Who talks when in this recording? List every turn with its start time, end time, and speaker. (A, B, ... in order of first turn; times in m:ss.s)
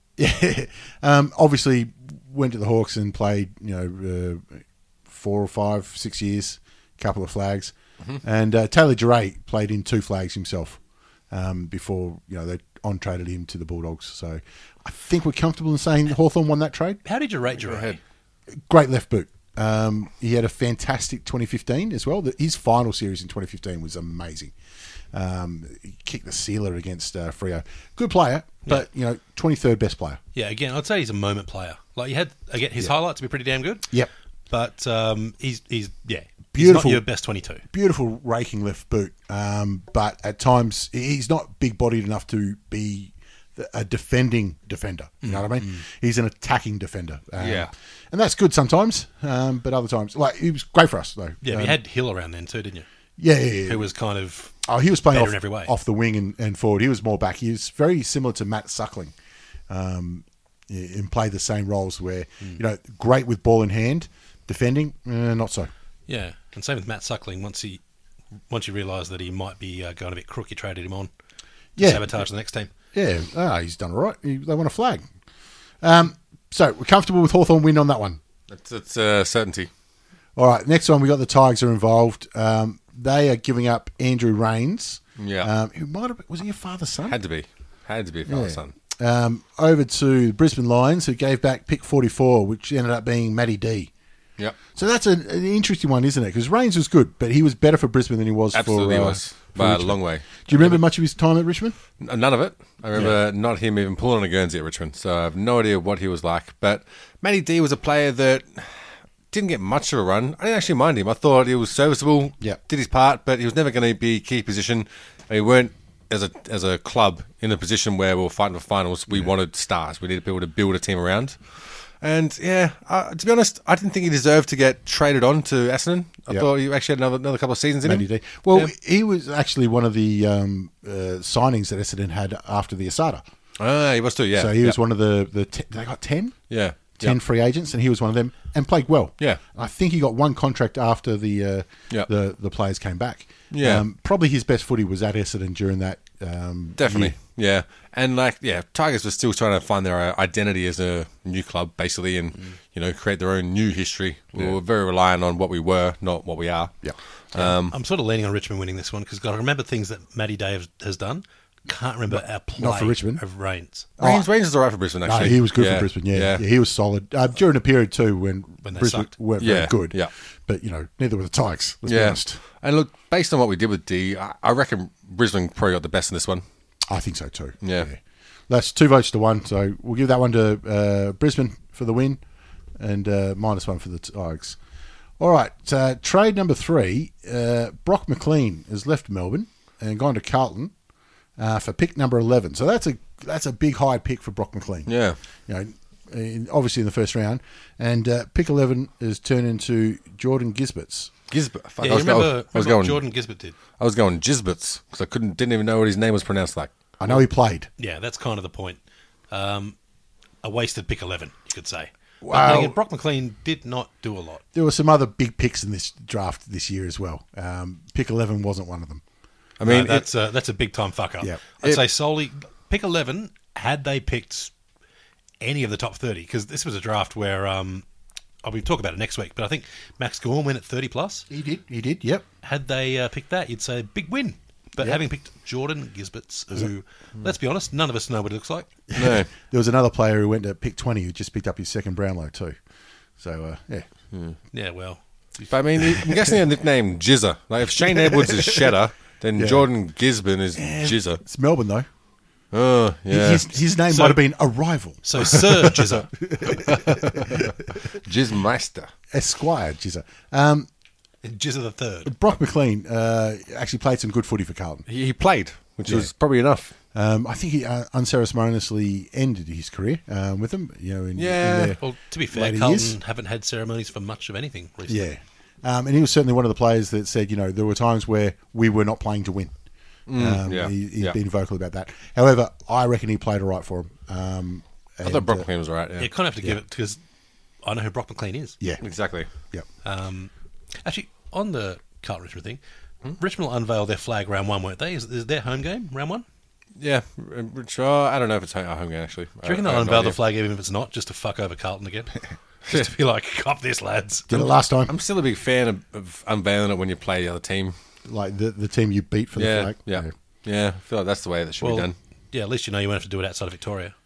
0:00.2-0:10.8 A
0:11.3-0:17.0 A
0:17.0-0:18.0 B
0:17.6-0:18.0 C
0:18.7-0:24.6 A
0:25.1-0:30.2 A
0:30.4-0:33.9 B
0:34.5-0:37.6 B
0:36.5-0:37.0 A
0:37.7-0:51.8 A
0:45.2-0:45.8 B
0:47.4-0:47.7 C
0:51.4-0:52.9 B
0:53.2-0:53.9 A
0:53.6-0:55.7 B
0:54.6-0:59.1 A
0:59.7-1:05.7 A
1:06.1-1:07.8 B
1:08.5-1:11.1 B
1:11.8-1:12.2 A
1:11.8-1:12.7 B
1:12.9-1:15.1 A
1:15.8-1:18.2 A
1:18.5-1:19.7 C
1:20.4-1:27.2 A
1:25.2-1:25.5 C
1:27.1-1:28.7 C
1:28.3-1:33.9 A
1:34.7-1:41.8 A
1:38.5-1:40.8 C
1:42.0-2:08.7 C
2:07.8-2:13.2 A
2:13.6-2:14.8 C
2:14.3-2:16.4 A
2:16.5-2:17.2 C
2:17.0-2:27.1 A
2:23.5-2:23.8 C
2:26.8-2:37.8 C
2:36.8-2:37.5 A
2:37.7-2:43.9 B
2:42.1-2:43.2 A
2:44.0-2:44.3 A
2:44.0-2:46.4 C
2:45.0-2:52.4 A
2:48.6-2:49.1 B
2:49.4-2:50.1 C
2:51.9-2:56.4 C
2:56.9-3:02.2 A
2:57.6-2:57.9 C
3:02.8-3:04.6 A
3:05.2-3:10.7 A
3:11.4-3:14.9 A
3:14.9-3:15.2 C
3:15.5-3:21.1 A
3:21.3-3:23.1 C
3:21.8-3:23.6 B
3:23.8-3:26.7 C
3:27.0-3:27.7 A
3:27.8-3:28.8 B
3:29.3-3:29.8 B
3:30.4-3:34.4 B
3:32.2-3:32.8 A
3:34.5-3:39.0 A
3:39.6-3:40.1 C
3:39.6-3:44.5 B
3:45.4-3:47.8 B
3:48.4-3:51.3 B
3:51.3-3:52.2 A
3:52.4-3:58.7 B
3:58.9-4:02.6 A
3:59.0-3:59.3 C
4:03.2-4:03.9 A
4:04.5-4:05.6 B
4:05.5-4:11.2 C
4:07.9-4:08.7 A
4:09.4-4:09.7 A
4:10.6-4:11.9 A
4:12.5-4:13.5 C
4:13.1-4:17.5 A
4:13.9-4:14.2 B
4:15.0-4:16.1 B
4:16.6-4:18.9 C
4:19.1-4:20.7 A
4:21.2-4:22.1 B
4:22.1-4:24.9 A
4:24.9-4:26.7 C
4:25.9-4:26.1 A
4:26.9-4:31.8 A
4:31.2-4:31.8 C
4:31.8-4:35.1 B
4:32.3-4:33.0 A
4:34.9-4:39.6 A
4:40.1-4:41.2 C
4:40.1-4:45.5 A
4:45.0-4:46.1 C
4:46.0-4:47.0 B
4:47.6-4:48.6 B
4:48.8-4:49.3 C
4:49.8-4:50.3 B
4:50.8-4:52.6 B
4:53.2-4:56.2 B
4:56.8-5:00.2 C
4:59.4-5:04.5 B
5:04.3-5:04.9 A
5:04.9-5:07.8 C
5:08.0-5:10.1 A
5:09.4-5:11.9 C
5:11.6-5:13.9 B